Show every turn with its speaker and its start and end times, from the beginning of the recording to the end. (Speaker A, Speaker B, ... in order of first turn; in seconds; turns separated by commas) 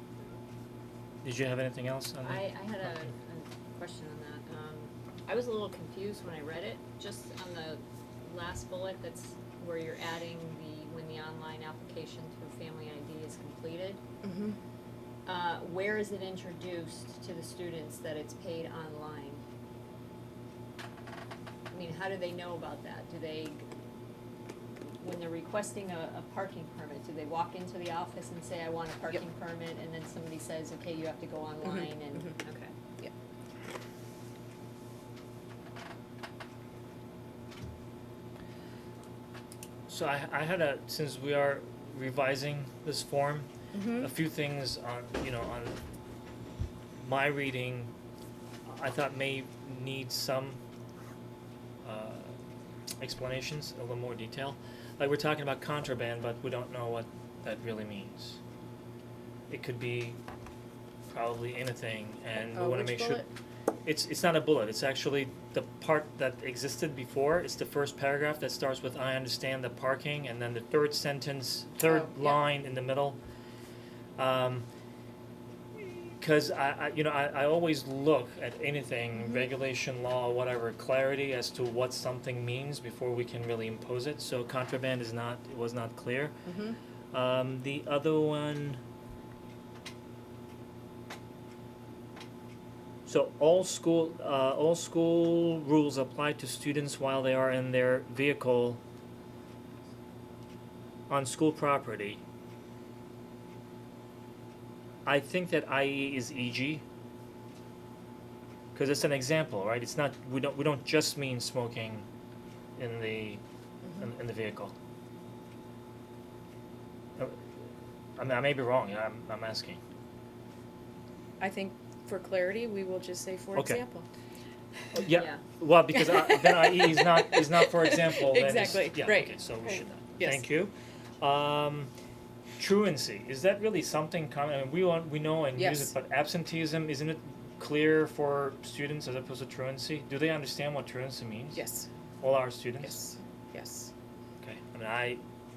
Speaker A: 1.2-3.1, Speaker B: 2.2-14.0, Speaker C: 14.2-14.6, Speaker B: 15.3-19.4, Speaker B: 21.7-23.7, Speaker B: 25.0-32.7, Speaker C: 31.6-32.4, Speaker A: 39.9-45.8, Speaker C: 43.7-44.1, Speaker A: 47.0-47.9, Speaker A: 48.7-50.6, Speaker A: 51.8-52.4, Speaker A: 53.0-58.4, Speaker A: 59.5-60.2, Speaker A: 61.1-63.3, Speaker C: 62.5-63.3, Speaker A: 63.9-73.2, Speaker C: 71.8-72.4, Speaker A: 74.2-74.7, Speaker A: 75.8-86.3, Speaker C: 79.2-79.5, Speaker C: 86.5-86.8, Speaker A: 87.1-88.8, Speaker A: 93.1-98.8, Speaker A: 101.1-102.2, Speaker A: 105.1-106.8, Speaker A: 108.8-112.1, Speaker A: 112.8-113.4, Speaker C: 113.8-114.1, Speaker A: 114.0-114.7, Speaker A: 117.2-117.5, Speaker A: 118.2-119.8, Speaker C: 121.4-124.1, Speaker A: 123.5-123.8, Speaker A: 124.9-131.9, Speaker B: 125.1-125.4, Speaker C: 125.9-130.5, Speaker A: 132.6-141.6, Speaker C: 135.5-135.9, Speaker C: 141.5-141.9, Speaker A: 142.2-143.0, Speaker C: 142.8-143.9, Speaker A: 144.4-145.2